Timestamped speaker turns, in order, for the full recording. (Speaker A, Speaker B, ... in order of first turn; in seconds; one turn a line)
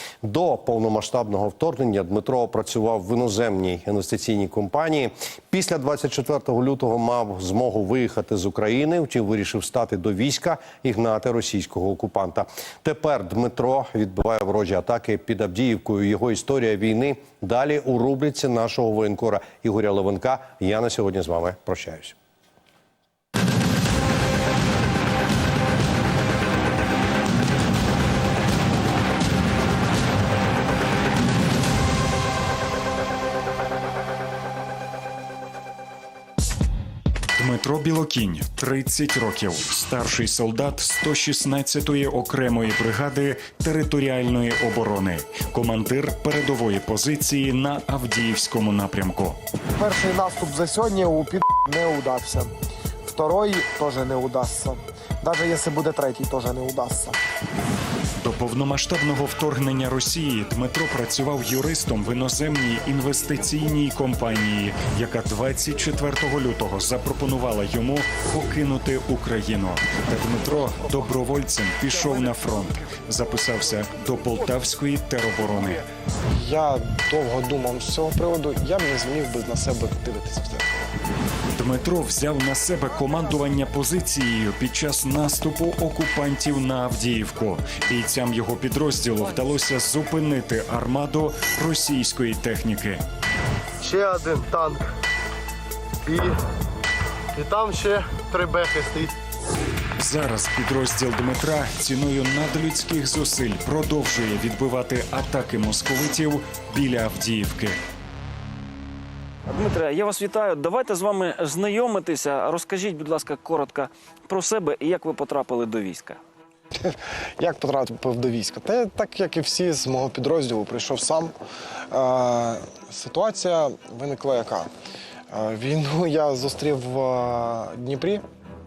Speaker A: 0.2-22.1
Speaker B: 37.4-49.4
Speaker C: 49.7-52.5
Speaker C: 53.0-57.2
Speaker B: 58.2-75.8
Speaker C: 72.0-73.7
Speaker C: 76.3-81.0
Speaker B: 81.6-93.0
Speaker D: 93.8-94.9
Speaker D: 96.0-96.4
Speaker D: 97.3-99.2
Speaker B: 100.0-107.8
Speaker E: 109.5-116.2
Speaker C: 116.8-121.3
Speaker C: 121.9-124.7
Speaker C: 125.3-128.2